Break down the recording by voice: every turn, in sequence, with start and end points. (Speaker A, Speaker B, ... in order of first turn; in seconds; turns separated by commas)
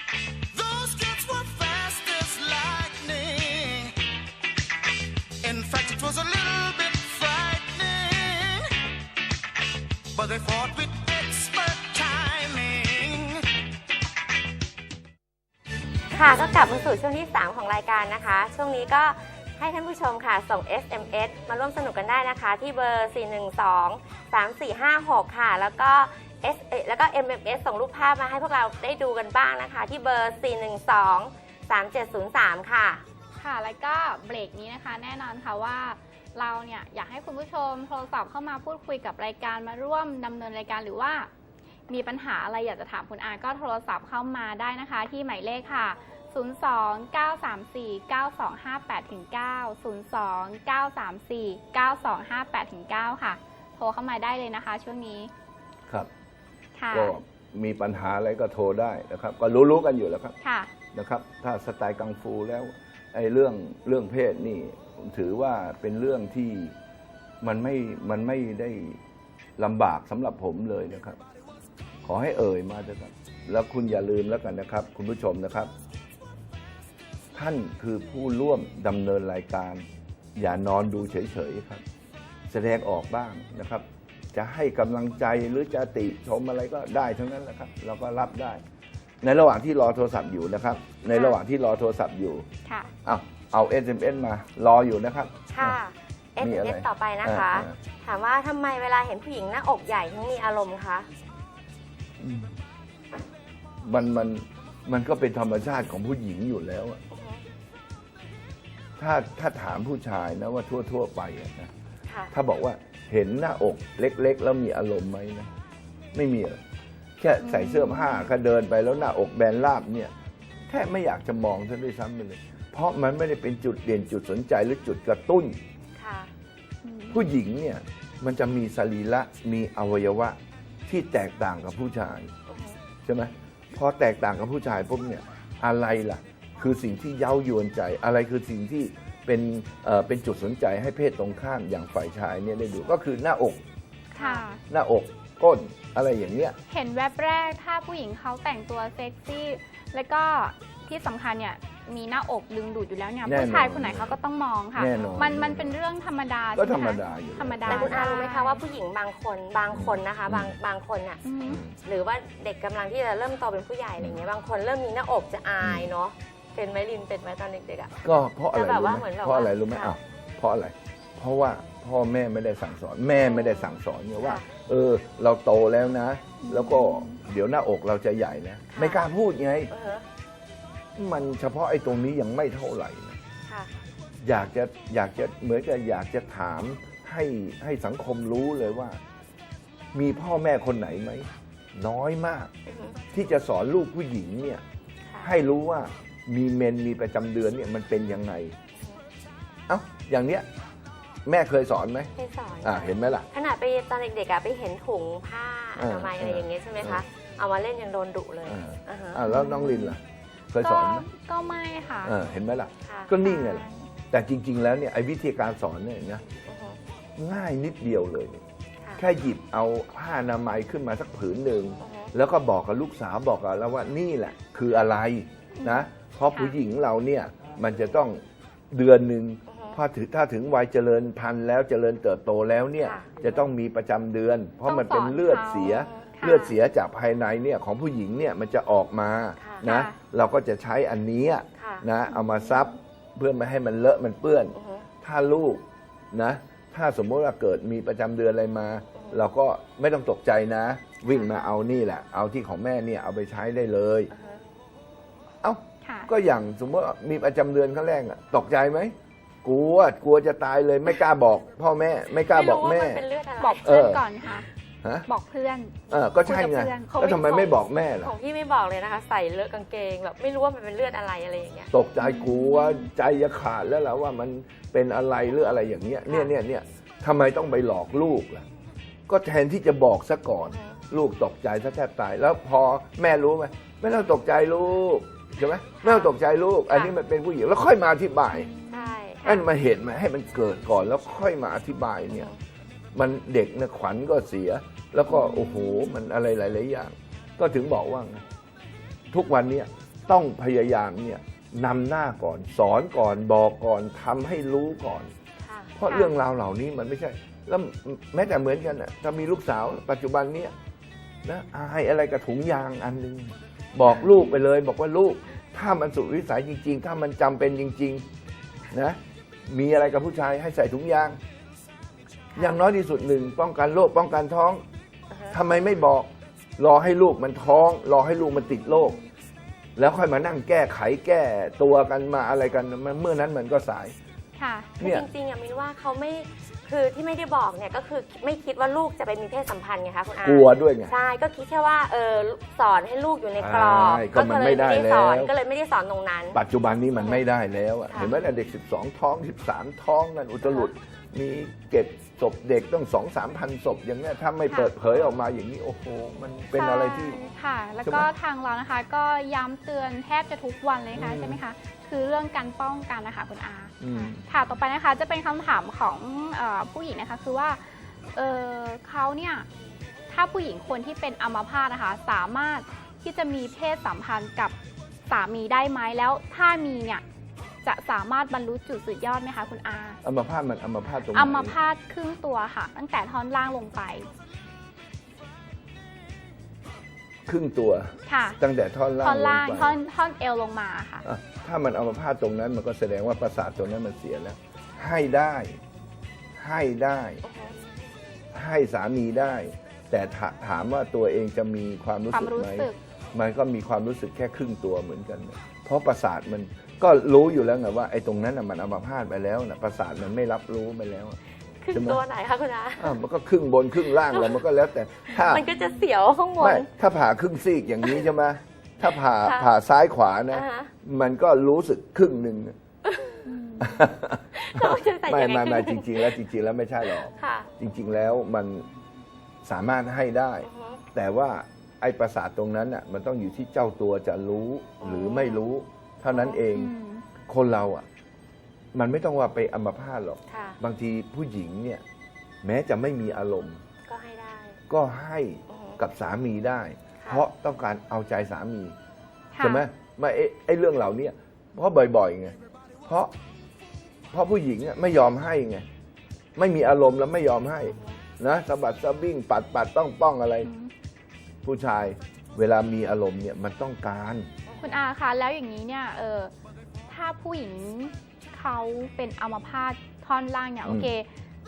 Speaker A: 0.5-4.0, Speaker A: 5.4-8.7, Speaker A: 10.1-13.5, Speaker B: 16.1-33.0, Speaker C: 33.3-41.3, Speaker C: 41.9-55.3, Speaker C: 56.8-57.1, Speaker D: 56.9-60.4, Speaker C: 60.4-60.7, Speaker D: 60.9-66.8, Speaker D: 67.4-69.0, Speaker D: 69.6-71.2, Speaker D: 72.0-75.7, Speaker D: 77.3-79.8, Speaker D: 80.4-81.8, Speaker D: 82.5-88.6, Speaker D: 89.2-92.5, Speaker C: 92.7-92.9, Speaker D: 93.0-95.8, Speaker B: 95.5-101.1, Speaker D: 96.4-97.8, Speaker D: 102.2-102.6, Speaker D: 103.8-107.0, Speaker B: 107.1-107.5, Speaker D: 109.0-111.7, Speaker B: 112.1-112.3, Speaker D: 112.3-115.5, Speaker D: 116.1-116.6, Speaker D: 117.2-120.1, Speaker C: 117.4-118.3, Speaker D: 120.7-125.6, Speaker B: 126.0-126.3, Speaker C: 126.8-127.3, Speaker D: 127.1-132.3, Speaker B: 132.5-132.8, Speaker D: 133.1-143.6, Speaker B: 144.1-144.4, Speaker C: 144.2-144.6, Speaker D: 144.7-146.6, Speaker C: 146.7-158.6, Speaker D: 153.2-154.2, Speaker D: 154.8-155.8, Speaker D: 156.6-158.1, Speaker B: 157.7-161.2, Speaker D: 159.7-160.6, Speaker C: 161.2-161.6, Speaker D: 161.4-161.8, Speaker B: 161.8-167.9, Speaker D: 164.0-164.2, Speaker D: 165.6-165.9, Speaker D: 168.0-179.7, Speaker B: 168.5-169.9, Speaker B: 173.2-174.5, Speaker C: 176.4-177.2, Speaker B: 178.7-179.0, Speaker B: 179.7-180.1, Speaker D: 181.0-183.2, Speaker D: 184.2-189.0, Speaker D: 189.9-192.5, Speaker B: 192.7-193.0, Speaker D: 193.1-194.6, Speaker D: 195.2-198.6, Speaker B: 198.8-199.0, Speaker D: 199.7-200.5, Speaker D: 201.3-203.3, Speaker B: 202.2-209.2, Speaker D: 205.8-207.0, Speaker D: 208.4-211.1, Speaker C: 209.3-210.0, Speaker C: 210.6-212.2, Speaker D: 212.0-216.2, Speaker B: 212.8-213.2, Speaker C: 213.2-213.9, Speaker B: 216.5-216.8, Speaker D: 217.2-218.4, Speaker D: 219.0-254.1, Speaker B: 221.8-222.1, Speaker C: 225.6-226.6, Speaker B: 229.5-229.8, Speaker B: 232.8-233.1, Speaker C: 234.6-236.5, Speaker B: 235.8-236.1, Speaker C: 239.7-239.9, Speaker B: 241.6-241.9, Speaker C: 242.1-242.7, Speaker B: 244.6-244.9, Speaker B: 248.9-249.2, Speaker B: 251.1-251.5, Speaker B: 254.1-254.4, Speaker D: 255.4-263.1, Speaker C: 255.8-256.1, Speaker B: 262.3-264.0, Speaker C: 263.4-264.5, Speaker D: 263.6-264.0, Speaker C: 265.1-267.5, Speaker D: 265.9-268.1, Speaker B: 268.0-271.7, Speaker D: 271.7-278.5, Speaker C: 272.0-272.9, Speaker B: 276.1-276.3, Speaker D: 279.1-288.5, Speaker B: 280.4-280.8, Speaker B: 285.8-286.1, Speaker B: 286.7-287.0, Speaker C: 288.3-289.5, Speaker B: 288.7-289.3, Speaker D: 289.2-292.3, Speaker D: 292.9-298.2, Speaker C: 295.1-295.9, Speaker D: 299.1-305.1, Speaker B: 305.4-305.7, Speaker D: 305.8-310.5, Speaker D: 311.2-318.0, Speaker B: 313.9-314.4, Speaker D: 318.7-321.2, Speaker B: 322.3-322.6, Speaker D: 322.4-324.6, Speaker B: 325.1-325.4, Speaker D: 325.3-329.0, Speaker D: 329.8-333.9, Speaker C: 334.4-334.7, Speaker B: 334.8-346.4, Speaker D: 334.8-335.1, Speaker D: 340.2-340.9, Speaker D: 343.4-345.3, Speaker D: 346.3-357.2, Speaker B: 347.9-348.2, Speaker C: 356.5-369.5, Speaker D: 357.8-358.1, Speaker D: 360.9-361.4, Speaker D: 363.8-364.2, Speaker C: 370.1-374.6, Speaker C: 375.1-377.0, Speaker C: 377.6-380.0, Speaker D: 380.0-381.6, Speaker C: 381.1-384.1, Speaker D: 387.3-389.8, Speaker C: 388.1-388.4, Speaker C: 389.0-391.1, Speaker D: 391.0-395.6, Speaker D: 396.4-397.2, Speaker B: 397.2-397.6, Speaker D: 398.3-411.2, Speaker C: 402.1-402.8, Speaker B: 411.6-413.0, Speaker D: 411.7-412.0, Speaker D: 412.8-415.5, Speaker B: 414.1-414.4, Speaker B: 415.3-416.7, Speaker C: 415.4-415.9, Speaker D: 416.4-422.6, Speaker B: 419.2-419.5, Speaker B: 420.3-420.7, Speaker B: 422.9-423.3, Speaker C: 423.3-423.8, Speaker D: 423.6-428.7, Speaker B: 424.4-426.2, Speaker B: 427.0-427.5, Speaker D: 429.4-436.7, Speaker B: 430.4-430.9, Speaker B: 434.8-435.4, Speaker B: 436.1-436.4, Speaker C: 436.5-437.1, Speaker D: 437.3-437.8, Speaker D: 438.7-441.8, Speaker B: 440.3-440.6, Speaker D: 442.4-443.6, Speaker B: 443.9-444.6, Speaker D: 444.7-448.8, Speaker B: 445.5-445.8, Speaker B: 447.0-447.3, Speaker C: 449.3-449.7, Speaker D: 449.4-453.1, Speaker D: 454.1-455.6, Speaker D: 456.4-460.5, Speaker B: 457.7-458.0, Speaker C: 460.4-460.7, Speaker D: 461.4-464.3, Speaker B: 464.5-464.8, Speaker C: 464.6-466.3, Speaker C: 466.9-471.1, Speaker D: 470.6-470.9